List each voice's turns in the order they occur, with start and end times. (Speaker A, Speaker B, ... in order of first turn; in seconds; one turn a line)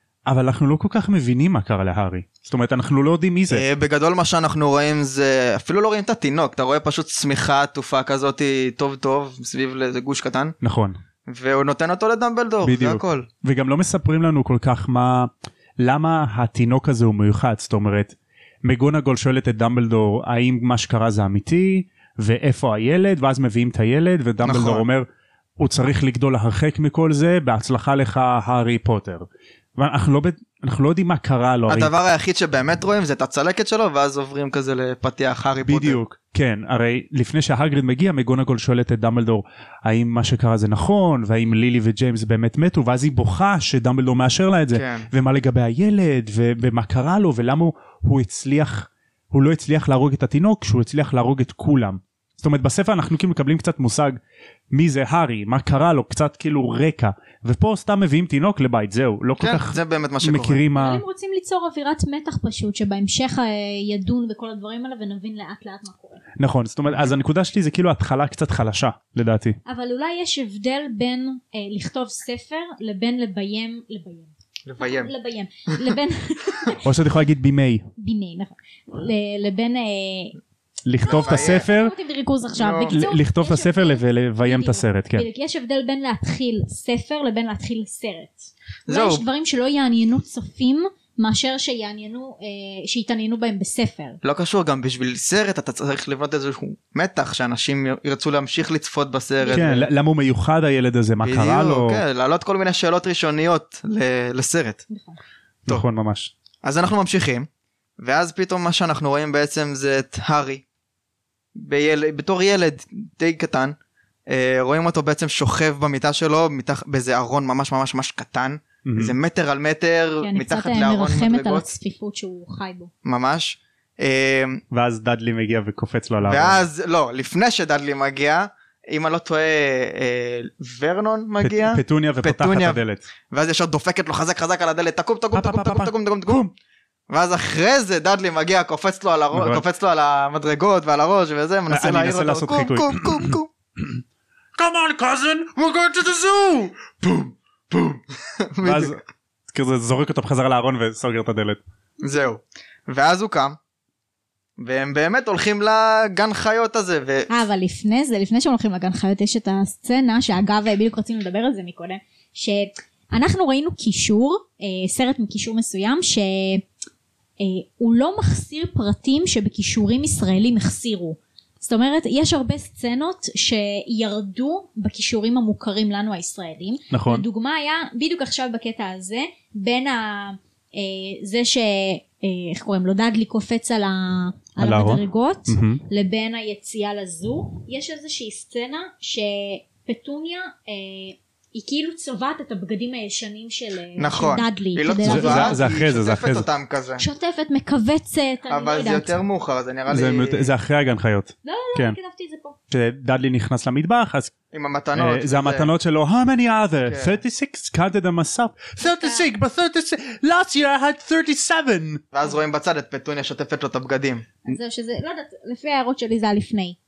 Speaker A: 0.2-3.6
Speaker B: 3.5-10.5
Speaker A: 10.6-11.0
Speaker B: 11.3-13.3
Speaker A: 12.6-25.1
Speaker B: 24.4-24.8
Speaker A: 25.6-31.9
Speaker B: 31.7-36.0
Speaker A: 35.6-54.2
Speaker B: 44.7-45.1
Speaker A: 54.7-61.0
Speaker B: 59.4-60.6
Speaker C: 60.7-66.2
Speaker A: 66.4-69.6
Speaker C: 69.7-76.8
Speaker B: 74.7-75.1
Speaker A: 76.8-77.9
Speaker C: 78.0-80.4
Speaker A: 80.8-81.9
Speaker C: 81.0-94.2
Speaker B: 81.1-81.6
Speaker B: 82.6-83.0
Speaker A: 82.9-85.2
Speaker B: 88.9-89.2
Speaker B: 94.2-99.9
Speaker C: 99.4-99.7
Speaker A: 99.5-102.0
Speaker B: 101.2-104.8
Speaker C: 104.9-105.2
Speaker A: 105.7-106.3
Speaker B: 106.6-107.5
Speaker B: 108.0-110.6
Speaker B: 111.5-113.7
Speaker B: 114.3-121.7
Speaker A: 118.8-119.1
Speaker C: 120.2-122.9
Speaker B: 123.0-124.6
Speaker A: 124.7-126.6
Speaker B: 126.2-136.5
Speaker A: 131.4-133.0
Speaker A: 135.3-136.5
Speaker B: 137.1-143.5
Speaker A: 139.3-139.6
Speaker A: 141.7-144.0
Speaker A: 144.6-148.0
Speaker B: 148.4-149.0
Speaker A: 148.6-151.6
Speaker B: 152.0-153.6
Speaker B: 154.6-157.3
Speaker C: 157.3-166.6
Speaker C: 167.4-195.6
Speaker A: 176.9-177.2
Speaker A: 184.6-185.8
Speaker B: 194.0-197.0
Speaker A: 195.0-196.4
Speaker C: 197.0-199.2
Speaker B: 198.5-200.5
Speaker A: 199.9-202.0
Speaker C: 201.4-202.6
Speaker A: 202.7-204.3
Speaker B: 204.5-205.7
Speaker A: 204.9-212.0
Speaker B: 206.9-207.2
Speaker C: 208.8-209.2
Speaker B: 212.1-214.2
Speaker C: 214.4-216.8